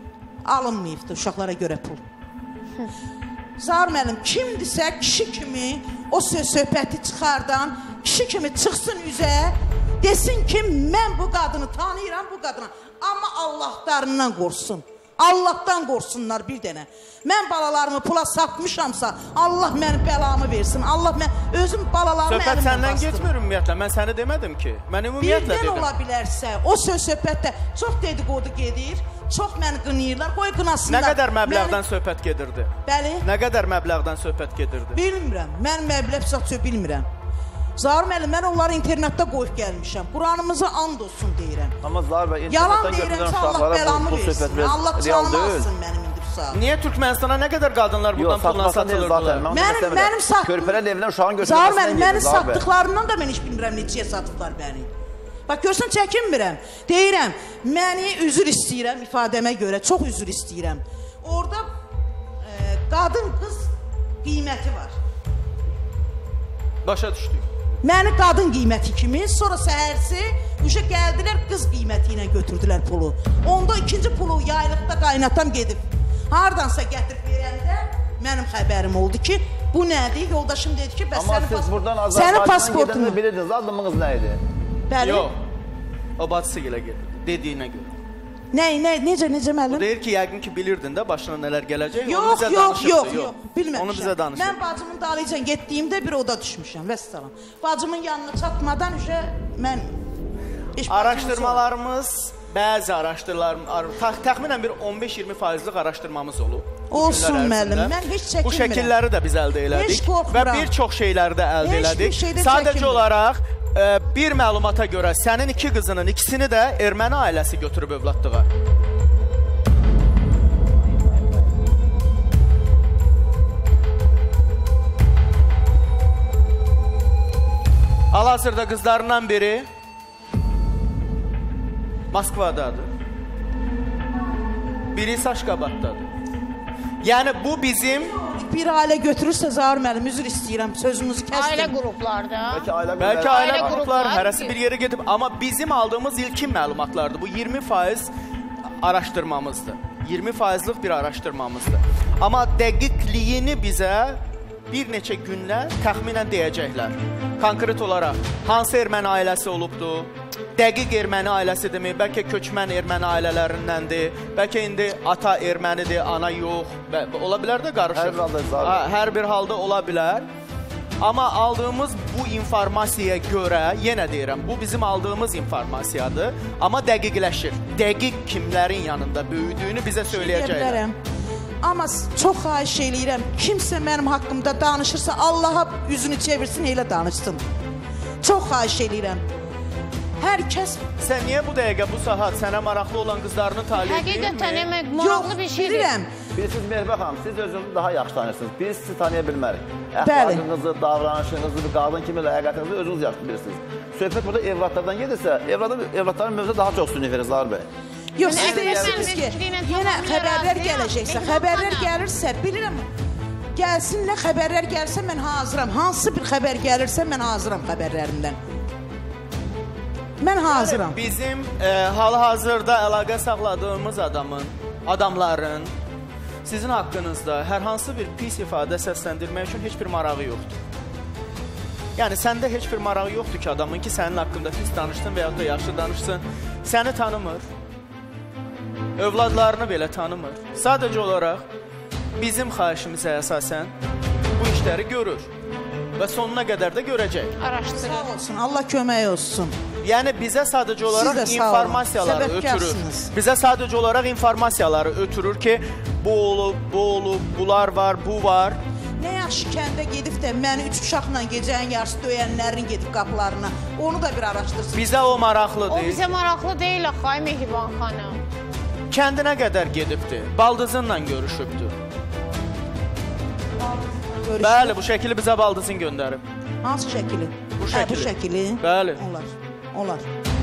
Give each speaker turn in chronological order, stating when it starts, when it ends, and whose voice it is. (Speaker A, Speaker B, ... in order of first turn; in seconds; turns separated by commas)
Speaker A: 0.5-2.0, Speaker A: 3.6-23.3, Speaker B: 22.3-25.9, Speaker A: 25.2-31.8, Speaker B: 30.9-35.0, Speaker A: 32.9-33.3, Speaker A: 34.9-37.1, Speaker A: 37.8-41.8, Speaker C: 41.8-45.7, Speaker A: 42.5-46.6, Speaker B: 46.5-49.5, Speaker C: 48.1-52.6, Speaker A: 49.5-50.8, Speaker A: 51.4-54.9, Speaker A: 55.5-61.6, Speaker A: 62.4-63.7, Speaker A: 64.2-64.9, Speaker B: 66.8-67.5, Speaker A: 67.8-83.2, Speaker C: 81.1-84.4, Speaker A: 84.9-85.3, Speaker B: 85.0-85.4, Speaker B: 86.2-88.0, Speaker A: 88.5-89.9, Speaker B: 89.7-94.6, Speaker A: 92.0-99.9, Speaker A: 100.8-101.6, Speaker B: 100.9-118.5, Speaker A: 106.9-109.0, Speaker A: 109.7-110.7, Speaker A: 111.6-113.1, Speaker B: 128.1-129.7, Speaker B: 132.1-132.9, Speaker B: 134.9-136.1, Speaker B: 137.0-138.2, Speaker A: 138.1-141.8, Speaker D: 141.3-142.7, Speaker C: 142.5-143.8, Speaker B: 143.0-148.1, Speaker D: 143.2-144.6, Speaker B: 148.8-170.3, Speaker C: 167.9-168.9, Speaker B: 171.0-180.8, Speaker A: 180.1-181.0, Speaker A: 181.6-187.4, Speaker A: 188.2-189.2, Speaker A: 190.2-190.8, Speaker B: 191.0-194.7, Speaker D: 193.7-195.9, Speaker A: 194.9-196.1, Speaker C: 196.3-207.7, Speaker A: 200.0-200.4, Speaker A: 208.2-212.8, Speaker D: 208.2-211.9, Speaker C: 208.2-209.1, Speaker A: 213.6-218.4, Speaker A: 220.2-221.0, Speaker B: 220.5-225.7, Speaker B: 226.4-230.6, Speaker B: 232.0-237.4, Speaker B: 239.0-241.4, Speaker B: 242.2-243.7, Speaker B: 244.3-245.3, Speaker B: 246.0-247.3, Speaker D: 247.4-248.1, Speaker A: 247.8-249.6, Speaker B: 249.8-258.6, Speaker A: 250.8-253.1, Speaker A: 259.0-265.2, Speaker B: 264.7-266.0, Speaker D: 265.7-268.2, Speaker B: 268.9-271.8, Speaker A: 273.9-274.8, Speaker B: 274.4-276.2, Speaker A: 276.6-280.1, Speaker B: 277.6-279.0